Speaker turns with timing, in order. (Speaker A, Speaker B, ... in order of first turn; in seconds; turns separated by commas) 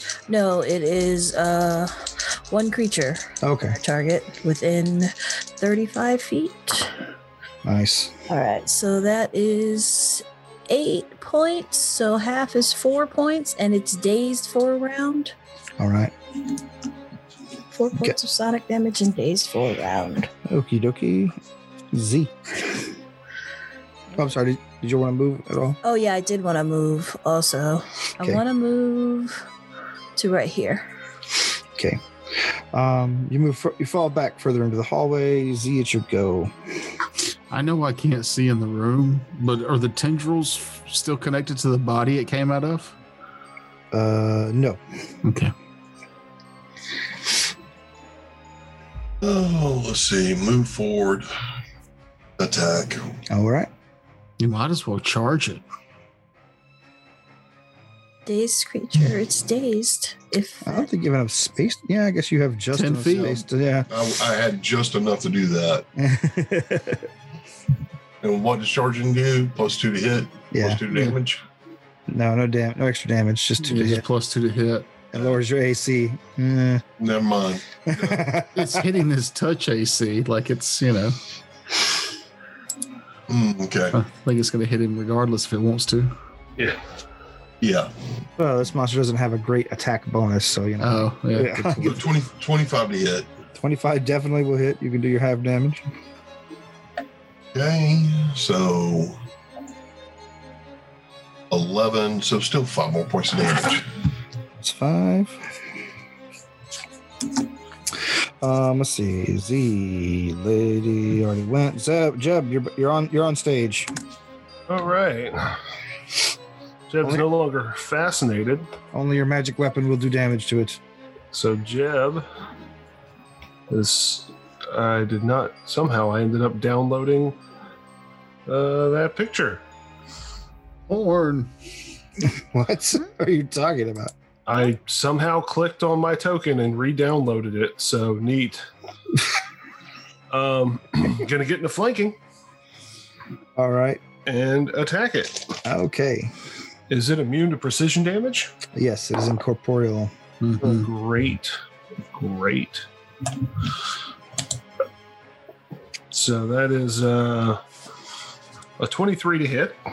Speaker A: 0.3-6.9, Speaker B: 3.4-3.8, Speaker B: 7.6-8.1, Speaker A: 8.3-15.3, Speaker B: 15.8-16.1, Speaker A: 17.7-20.3, Speaker B: 20.5-21.4, Speaker B: 21.9-22.8, Speaker B: 24.2-25.8, Speaker A: 25.8-29.4, Speaker A: 30.2-30.9, Speaker B: 31.8-32.0, Speaker B: 32.7-36.5, Speaker C: 37.5-43.0, Speaker B: 43.9-44.8, Speaker C: 45.2-45.5, Speaker D: 49.2-51.3, Speaker D: 52.4-53.0, Speaker B: 53.3-53.7, Speaker C: 54.4-55.6, Speaker A: 58.3-60.9, Speaker B: 60.6-63.9, Speaker C: 62.7-63.5, Speaker D: 63.9-65.9, Speaker B: 66.0-67.1, Speaker D: 68.2-71.4, Speaker B: 70.5-70.8, Speaker C: 70.9-71.2, Speaker B: 72.1-74.0, Speaker C: 73.6-74.9, Speaker B: 75.1-76.8, Speaker D: 77.0-78.3, Speaker B: 77.9-78.8, Speaker C: 78.5-81.2, Speaker D: 83.3-84.0, Speaker C: 83.9-86.1, Speaker D: 87.6-87.9, Speaker B: 88.4-92.0, Speaker C: 90.8-92.0, Speaker D: 91.8-93.3, Speaker B: 93.6-95.9, Speaker D: 97.5-99.2, Speaker D: 101.5-103.9, Speaker B: 104.6-105.5, Speaker B: 108.4-113.9, Speaker E: 114.7-115.6, Speaker E: 116.9-118.7, Speaker B: 118.9-120.8, Speaker E: 121.3-122.3, Speaker E: 123.7-127.4, Speaker E: 128.5-129.6, Speaker C: 130.9-131.5, Speaker B: 132.2-134.1, Speaker E: 134.5-138.7, Speaker E: 140.3-142.2, Speaker B: 143.6-144.0, Speaker E: 144.3-145.6, Speaker B: 145.7-146.3, Speaker E: 146.9-148.5, Speaker B: 148.7-150.1, Speaker C: 150.4-150.9, Speaker E: 150.6-151.6, Speaker E: 152.1-152.9, Speaker E: 156.1-157.6, Speaker E: 158.8-159.8